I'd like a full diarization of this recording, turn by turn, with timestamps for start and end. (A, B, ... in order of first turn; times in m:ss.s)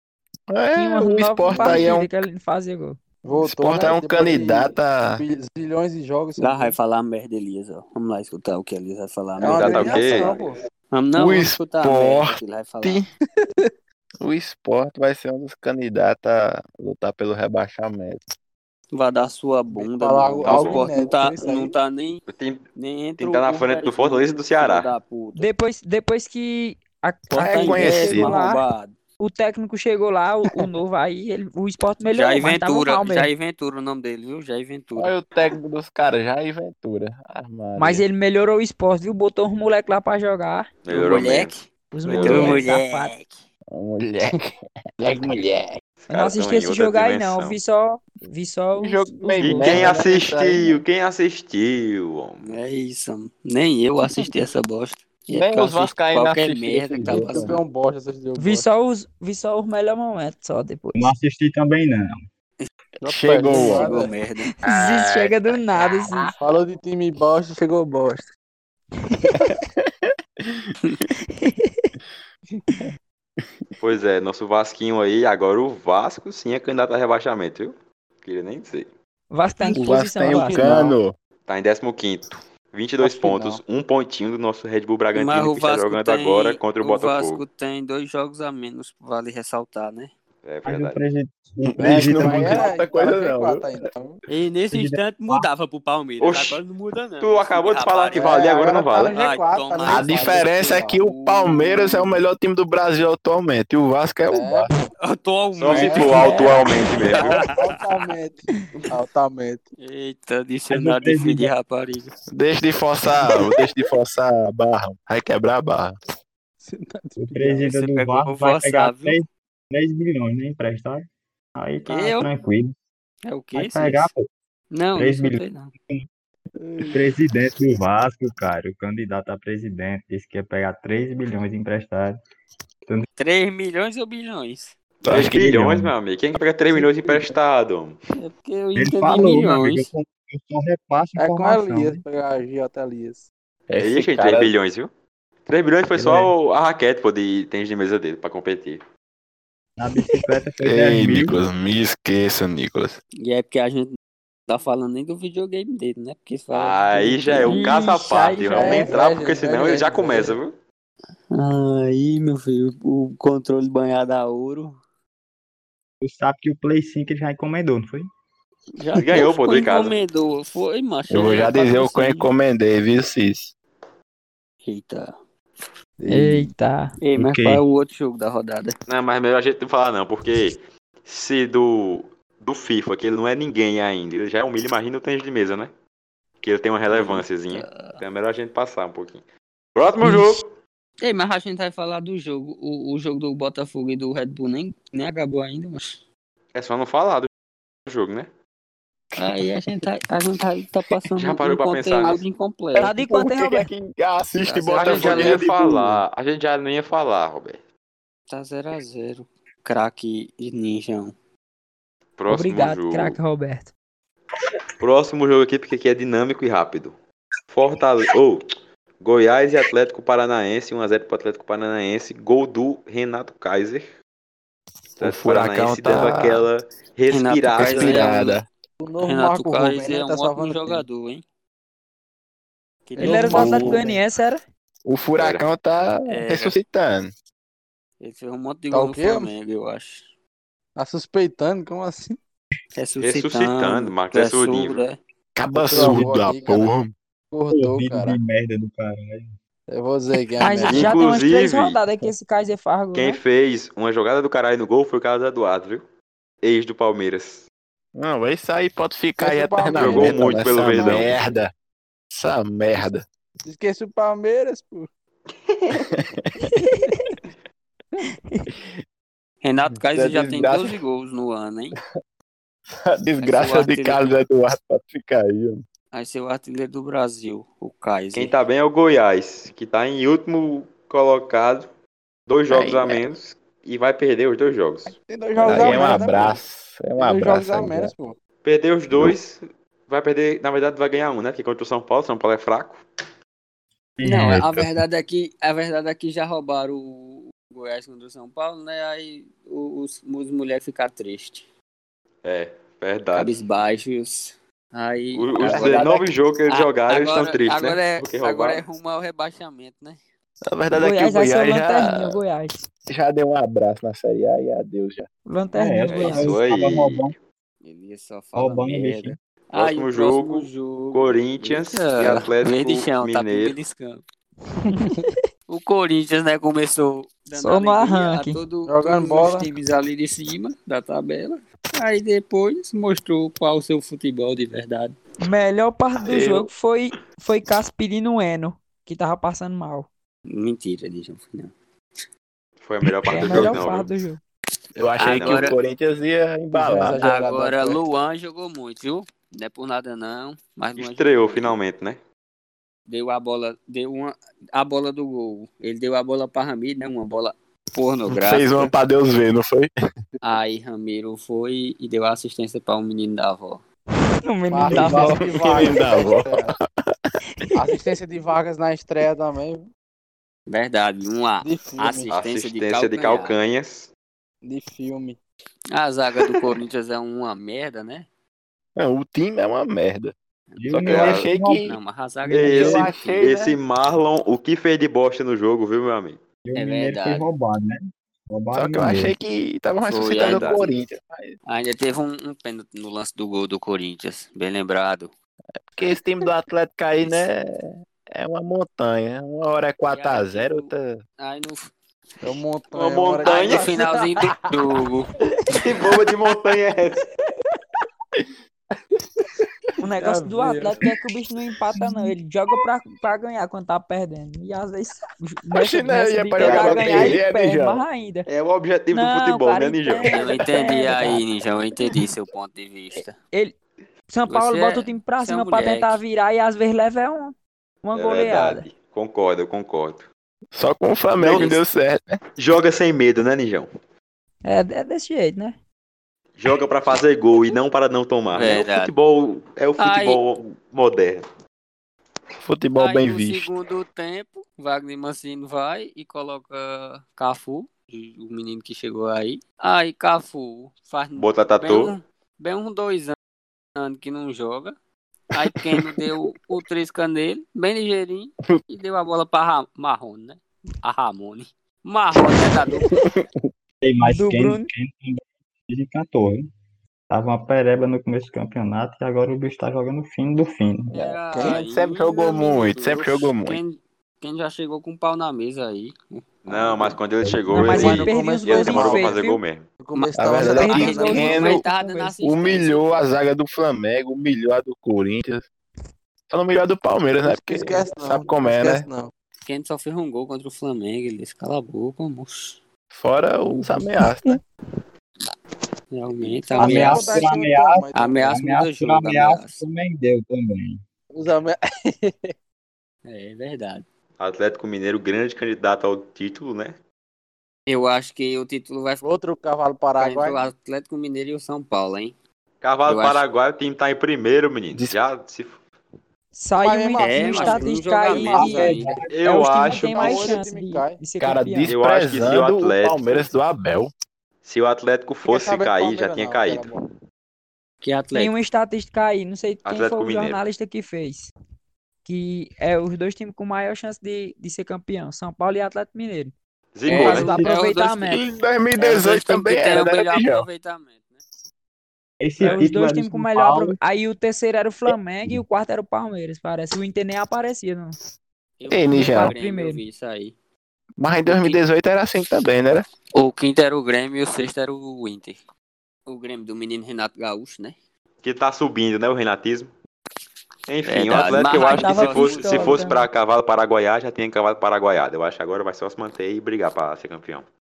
0:00.5-0:02.3 A
0:00.8-0:03.0 B
0:01.5-0:02.0 C
0:03.2-0:06.8 C
0:03.4-0:05.2 A
0:06.4-0:10.4 D
0:09.4-0:10.6 C
0:09.5-0:10.4 E
0:10.9-0:13.0 D
0:11.2-0:13.1 A
0:14.2-0:18.2 A
0:18.9-0:25.5 D
0:19.7-0:21.7 C
0:20.4-0:20.9 E
0:22.3-0:22.6 E
0:23.2-0:24.9 E
0:25.4-0:28.6 B
0:27.3-0:29.0 D
0:27.4-0:28.4 A
0:29.2-0:33.3 B
0:32.1-0:35.1 D
0:35.0-0:38.0 A
0:37.8-0:40.7 B
0:40.8-0:42.7 E
0:40.9-0:43.4 D
0:41.9-0:43.1 B
0:43.7-0:45.7 A
0:46.0-0:47.6 E
0:46.1-0:49.4 B
0:48.8-0:50.8 A
0:49.4-0:52.6 E
0:49.5-0:50.7 C
0:52.4-0:57.6 D
0:55.3-0:57.6 A
0:57.1-0:58.6 C
0:58.4-1:01.1 B
1:01.0-1:02.2 F
1:03.0-1:04.2 C
1:03.0-1:04.1 A
1:03.3-1:04.5 D
1:04.5-1:06.3 B
1:04.6-1:06.3 A
1:06.4-1:08.3 C
1:09.3-1:09.9 A
1:11.3-1:11.9 B
1:13.8-1:18.9 E
1:19.3-1:20.7 B
1:19.7-1:21.2 A
1:20.3-1:21.0 C
1:21.5-1:27.4 E
1:23.0-1:23.6 C
1:25.1-1:30.1 D
1:30.4-1:31.0 E
1:30.6-1:32.7 F
1:31.6-1:33.8 A
1:31.8-1:34.2 C
1:34.3-1:41.9 D
1:34.7-1:35.4 F
1:36.2-1:36.6 E
1:37.2-1:39.2 E
1:38.2-1:41.0 C
1:39.8-1:44.7 A
1:44.3-1:44.8 C
1:45.0-1:47.8 D
1:45.6-1:47.5 E
1:45.7-1:46.4 C
1:46.1-1:46.6 B
1:47.1-1:49.6 C
1:49.8-1:52.1 D
1:50.7-1:51.5 F
1:52.3-1:56.0 A
1:56.6-1:57.7 C
1:57.2-2:02.7 F
1:57.7-1:59.2 D
2:01.9-2:02.3 D
2:03.3-2:04.1 D
2:03.6-2:04.3 F
2:04.7-2:05.7 D
2:05.0-2:06.1 F
2:06.6-2:07.0 C
2:06.9-2:12.2 F
2:13.2-2:14.8 D
2:15.0-2:18.0 E
2:15.0-2:15.5 A
2:15.3-2:15.9 F
2:16.7-2:17.4 C
2:18.2-2:19.9 D
2:18.8-2:22.0 F
2:21.2-2:23.2 C
2:23.7-2:24.9 E
2:23.7-2:24.5 A
2:25.4-2:28.8 E
2:25.9-2:26.3 F
2:29.8-2:31.4 F
2:30.6-2:33.0 A
2:33.2-2:34.0 D
2:34.5-2:37.7 D
2:36.5-2:40.6 E
2:37.4-2:39.0 B
2:38.5-2:40.4 C
2:41.3-2:44.8 D
2:46.0-2:48.1 F
2:48.8-2:52.3 D
2:49.0-2:50.0 E
2:51.1-2:53.5 A
2:54.6-2:55.6 D
2:56.0-2:56.5 C
2:56.1-2:56.9 B
2:57.0-2:58.8 D
2:57.2-2:57.6 F
2:58.9-3:05.7 E
3:06.4-3:09.2 E
3:06.9-3:08.0 D
3:09.8-3:10.6 E
3:10.0-3:10.3 B
3:11.0-3:16.0 D
3:16.5-3:17.3 E
3:17.9-3:18.3 E
3:19.2-3:22.9 D
3:19.2-3:19.4 A
3:21.2-3:22.2 E
3:22.8-3:23.7 B
3:23.0-3:26.0 A
3:24.4-3:25.4 D
3:24.7-3:27.6 E
3:28.3-3:31.1 D
3:32.2-3:33.2 E
3:32.3-3:33.7 B
3:34.8-3:37.0 E
3:37.5-3:38.4 E
3:39.0-3:44.0 E
3:45.0-3:48.2 E
3:45.0-3:46.5 A
3:47.1-3:48.4 D
3:47.6-3:48.5 A
3:48.8-3:50.8 C
3:49.0-3:51.2 D
3:52.9-3:53.8 D
3:53.0-3:54.0 C
3:53.0-3:54.4 B
3:53.4-3:53.8 A
3:54.8-3:57.1 A
3:55.2-3:55.5 E
3:56.1-3:56.6 D
3:58.0-4:00.1 D
3:58.7-3:59.3 C
4:00.8-4:02.2 C
4:02.8-4:05.0 D
4:03.0-4:04.8 E
4:05.4-4:06.9 A
4:05.6-4:06.7 C
4:05.7-4:06.2 F
4:07.3-4:08.2 C
4:07.5-4:09.3 F
4:09.7-4:10.9 C
4:10.4-4:13.2 B
4:10.7-4:11.8 E
4:12.9-4:15.8 E
4:16.4-4:17.5 E
4:18.0-4:21.5 A
4:19.2-4:21.3 C
4:19.8-4:21.2 E
4:22.1-4:23.0 A
4:23.4-4:24.9 C
4:25.3-4:26.0 E
4:25.9-4:26.3 A
4:26.5-4:27.1 B
4:29.4-4:31.8 D
4:29.9-4:30.8 A
4:32.8-4:35.6 A
4:33.2-4:34.2 D
4:35.9-4:38.3 D
4:38.1-4:41.7 E
4:42.3-4:45.0 E
4:42.5-4:43.0 A
4:44.9-4:46.4 C
4:45.4-4:47.9 A
4:45.5-4:45.8 E
4:47.0-4:48.2 C
4:48.4-4:52.8 E
4:54.0-4:54.8 F
4:54.0-5:01.5 D
5:02.2-5:03.4 E
5:03.2-5:05.9 D
5:05.1-5:08.7 E
5:05.4-5:06.1 A
5:06.5-5:10.0 D
5:10.5-5:12.2 A
5:10.7-5:12.7 B
5:12.9-5:15.1 A
5:15.3-5:16.4 B
5:15.5-5:17.1 F
5:15.9-5:17.2 E
5:17.6-5:24.0 D
5:18.4-5:19.2 F
5:19.5-5:23.6 E
5:24.7-5:25.2 B
5:25.5-5:35.0 D
5:27.4-5:28.4 B
5:28.7-5:29.5 C
5:35.2-5:39.9 B
5:36.0-5:36.5 A
5:40.3-5:41.5 D
5:42.6-5:43.9 E
5:43.1-5:44.2 B
5:43.2-5:43.5 D
5:44.8-5:47.0 A
5:45.0-5:45.6 E
5:45.0-5:45.6 D
5:46.5-5:47.8 C
5:47.0-5:51.6 D
5:50.8-5:52.0 E
5:52.9-5:58.7 D
5:58.1-5:59.7 A
6:00.2-6:03.6 D
6:04.2-6:05.3 B
6:04.5-6:06.5 C
6:04.7-6:07.1 A
6:07.6-6:09.7 C
6:10.5-6:13.4 D
6:11.4-6:12.1 C
6:12.1-6:13.9 E
6:14.4-6:15.2 C
6:15.7-6:18.1 D
6:16.2-6:16.6 A
6:18.8-6:20.1 A
6:20.5-6:21.0 D
6:20.6-6:21.7 F
6:20.8-6:21.2 E
6:20.8-6:21.8 A
6:21.6-6:23.2 D
6:22.3-6:22.8 F
6:22.3-6:26.2 E
6:22.4-6:23.6 A
6:26.4-6:29.1 F
6:26.6-6:27.3 D
6:28.5-6:31.4 A
6:29.9-6:30.7 D
6:30.2-6:30.7 E
6:31.5-6:35.1 D
6:35.7-6:41.0 A
6:39.9-6:41.7 D
6:42.2-6:44.6 C
6:42.7-6:43.8 E
6:43.2-6:45.1 D
6:45.5-6:47.0 E
6:49.8-6:58.3 B
6:50.0-6:50.8 C
6:55.6-6:57.8 A
6:56.4-6:57.2 E
6:58.3-7:00.4 E
6:58.9-7:01.2 B
7:00.1-7:03.2 D
7:04.1-7:08.7 B
7:04.3-7:06.0 D
7:07.9-7:10.1 E
7:10.5-7:12.2 A
7:11.2-7:11.6 E
7:12.4-7:13.7 E
7:14.4-7:15.6 B
7:16.4-7:21.2 E
7:18.3-7:18.9 D
7:19.8-7:20.2 D
7:22.4-7:23.5 A
7:22.8-7:33.2 D
7:31.2-7:32.0 E
7:33.8-7:34.7 D
7:35.3-7:42.9 D
7:35.5-7:36.1 A
7:42.2-7:43.3 A
7:43.8-7:46.5 F
7:44.0-7:44.7 B
7:47.1-7:51.0 F
7:50.9-7:57.0 D
7:50.9-7:53.6 A
7:51.3-7:51.6 C
7:56.4-7:59.7 E
7:57.5-7:59.4 B
7:57.6-7:59.2 C
7:59.8-8:01.4 C
7:59.9-8:03.0 D
8:00.2-8:01.7 A
8:00.4-8:02.1 B
8:02.2-8:05.5 A
8:06.3-8:08.9 A
8:07.2-8:09.1 C
8:09.5-8:12.6 D
8:12.9-8:14.4 A
8:15.9-8:17.3 D
8:16.5-8:18.4 C
8:16.6-8:20.8 F
8:18.0-8:19.6 D
8:21.1-8:22.3 C
8:23.0-8:23.9 D
8:24.2-8:26.8 E
8:27.7-8:29.1 D
8:29.0-8:30.5 C
8:30.0-8:32.1 D
8:32.6-8:35.6 E
8:32.9-8:33.2 D
8:34.7-8:35.0 A
8:36.3-8:41.8 B
8:36.6-8:38.9 C
8:37.0-8:39.0 D
8:38.4-8:39.1 F
8:39.1-8:40.3 E
8:39.7-8:41.0 C
8:41.2-8:43.9 A
8:41.7-8:43.3 E
8:44.4-8:46.9 E
8:45.2-8:46.8 C
8:47.8-8:48.3 D
8:48.1-8:51.3 B
8:49.6-8:50.4 E
8:52.0-8:56.3 B
8:56.7-8:57.5 E
8:56.9-8:58.2 D
8:56.9-8:57.5 F
8:56.9-8:58.2 B
8:58.1-9:00.5 A
8:58.8-9:01.2 D
9:02.2-9:03.8 F
9:02.4-9:08.0 B
9:08.6-9:10.3 D
9:08.7-9:09.4 A
9:08.9-9:09.8 B
9:11.0-9:12.9 A
9:11.3-9:11.6 D
9:13.2-9:15.4 D
9:16.1-9:17.8 D
9:18.2-9:19.7 E
9:20.7-9:27.5 E
9:20.9-9:22.8 D
9:21.6-9:23.1 B